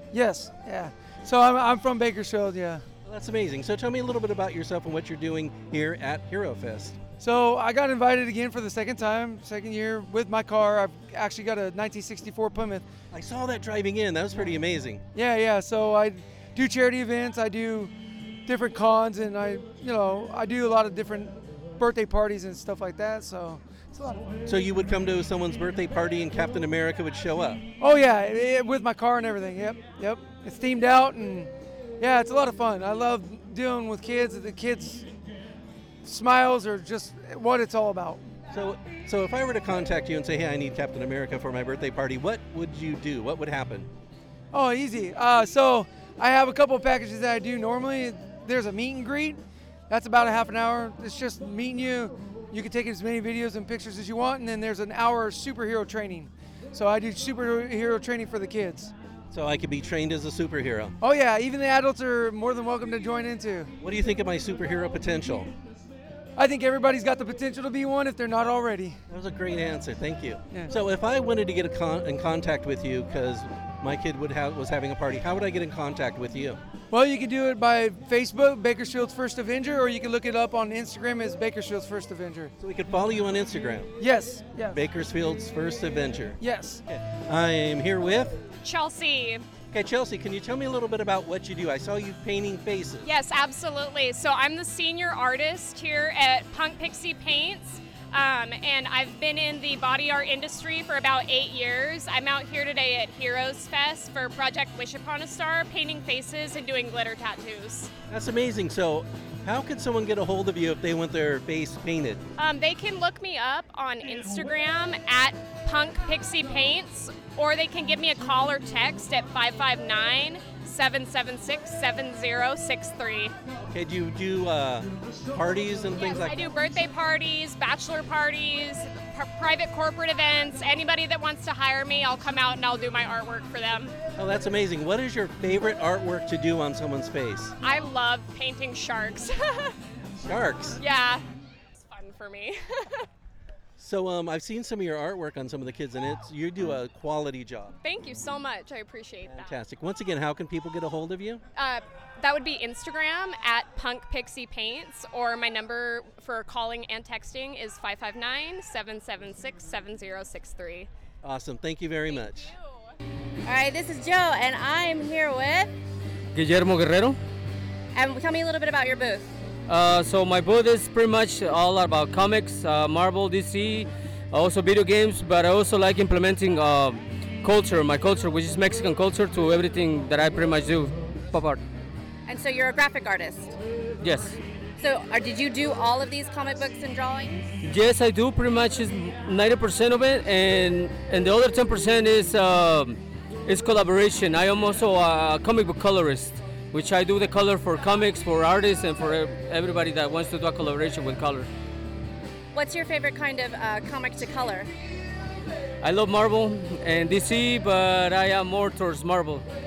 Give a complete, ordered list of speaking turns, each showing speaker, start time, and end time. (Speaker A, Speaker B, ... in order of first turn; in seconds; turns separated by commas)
Speaker A: 0.1-2.8, Speaker B: 3.0-7.0, Speaker A: 7.2-12.8, Speaker B: 13.1-15.0, Speaker A: 15.1-17.9, Speaker A: 18.4-24.3, Speaker B: 24.4-27.6, Speaker A: 27.8-35.0, Speaker A: 36.0-38.2, Speaker B: 38.5-43.9, Speaker A: 44.5-58.9, Speaker B: 59.3-61.0, Speaker A: 61.0-63.7, Speaker B: 63.8-65.5, Speaker A: 66.4-69.0, Speaker B: 69.1-76.6, Speaker A: 76.9-82.5, Speaker B: 82.6-83.9, Speaker A: 84.0-84.8, Speaker B: 84.7-88.4, Speaker A: 86.4-86.8, Speaker C: 88.6-89.4, Speaker B: 89.7-93.1, Speaker C: 93.0-107.9, Speaker B: 108.1-112.2, Speaker C: 112.4-123.3, Speaker B: 123.7-126.5, Speaker C: 126.0-133.9, Speaker B: 134.2-137.5, Speaker C: 137.6-139.7, Speaker B: 140.2-140.8, Speaker C: 140.8-141.2, Speaker C: 141.8-143.0, Speaker B: 143.8-147.8, Speaker C: 147.8-149.6, Speaker B: 149.2-151.4, Speaker C: 151.5-160.9, Speaker B: 161.2-162.5, Speaker C: 162.1-162.8, Speaker D: 163.4-165.7, Speaker E: 166.3-167.2, Speaker D: 167.9-169.3, Speaker E: 169.7-181.6, Speaker D: 182.3-183.5, Speaker E: 184.0-184.4, Speaker D: 184.8-187.5, Speaker E: 187.6-201.5, Speaker D: 202.5-204.7, Speaker E: 205.8-209.4